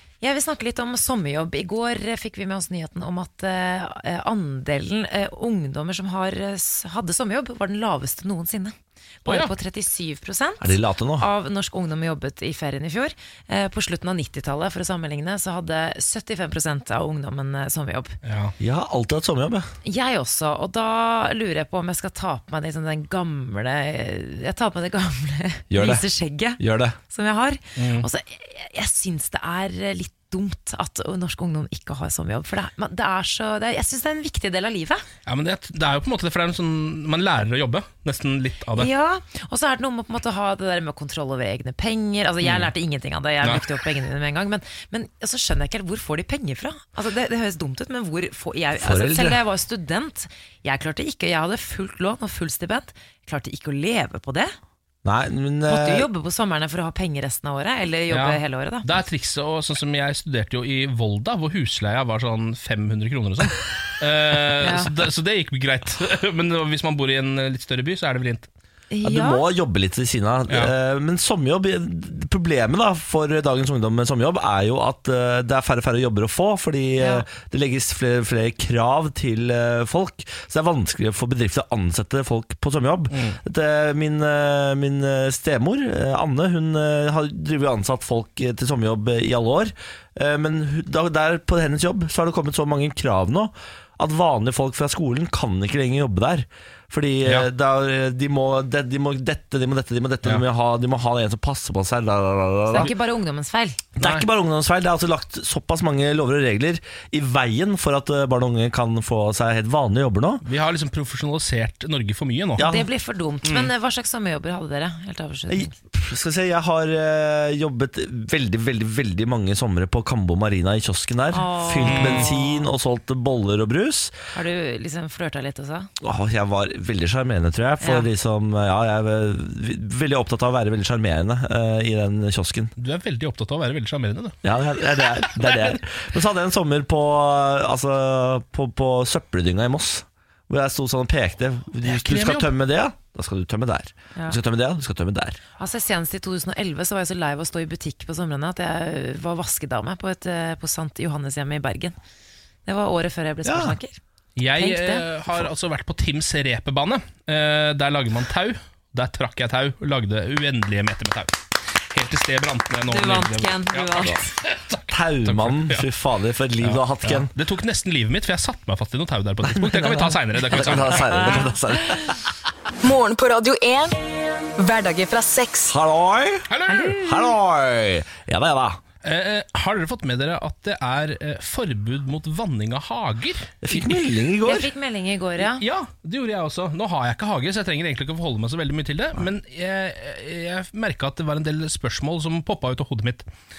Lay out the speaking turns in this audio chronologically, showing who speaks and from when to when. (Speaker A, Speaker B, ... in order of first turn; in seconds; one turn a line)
Speaker A: 0.2-18.2
Speaker B: 9.2-9.5
Speaker C: 10.6-11.3
Speaker B: 18.2-18.5
Speaker C: 18.6-19.7
Speaker A: 19.8-35.0
Speaker C: 25.7-26.0
Speaker C: 26.6-27.0
Speaker B: 27.8-28.1
Speaker B: 35.2-38.9
Speaker A: 38.7-54.5
Speaker B: 42.4-42.7
Speaker C: 48.8-49.4
Speaker C: 55.0-56.1
Speaker A: 55.7-58.9
Speaker B: 58.1-68.5
Speaker A: 64.6-64.9
Speaker A: 68.9-69.4
Speaker C: 69.0-102.9
Speaker A: 77.0-77.2
Speaker B: 83.1-83.4
Speaker A: 102.7-103.8
Speaker C: 104.0-110.4
Speaker B: 104.0-104.2
Speaker B: 110.4-112.7
Speaker C: 112.6-112.9
Speaker A: 112.6-115.7
Speaker B: 113.4-113.7
Speaker C: 115.5-124.2
Speaker A: 121.3-122.7
Speaker B: 121.8-122.3
Speaker A: 124.3-125.9
Speaker C: 126.0-132.7
Speaker A: 127.8-128.1
Speaker B: 132.8-134.4
Speaker C: 134.4-145.4
Speaker B: 134.9-135.8
Speaker B: 141.8-142.5
Speaker A: 145.6-152.0
Speaker A: 152.7-154.0
Speaker C: 153.4-153.8
Speaker B: 154.4-165.8
Speaker A: 154.6-155.1
Speaker A: 162.9-164.3
Speaker C: 164.9-167.3
Speaker B: 166.6-171.4
Speaker C: 169.4-172.3
Speaker A: 171.1-171.5
Speaker D: 172.8-174.0
Speaker D: 174.6-175.7
Speaker C: 175.7-178.8
Speaker B: 176.5-176.9
Speaker A: 176.7-177.3
Speaker B: 179.0-184.1
Speaker C: 183.6-184.7
Speaker A: 184.4-185.6
Speaker B: 185.4-193.2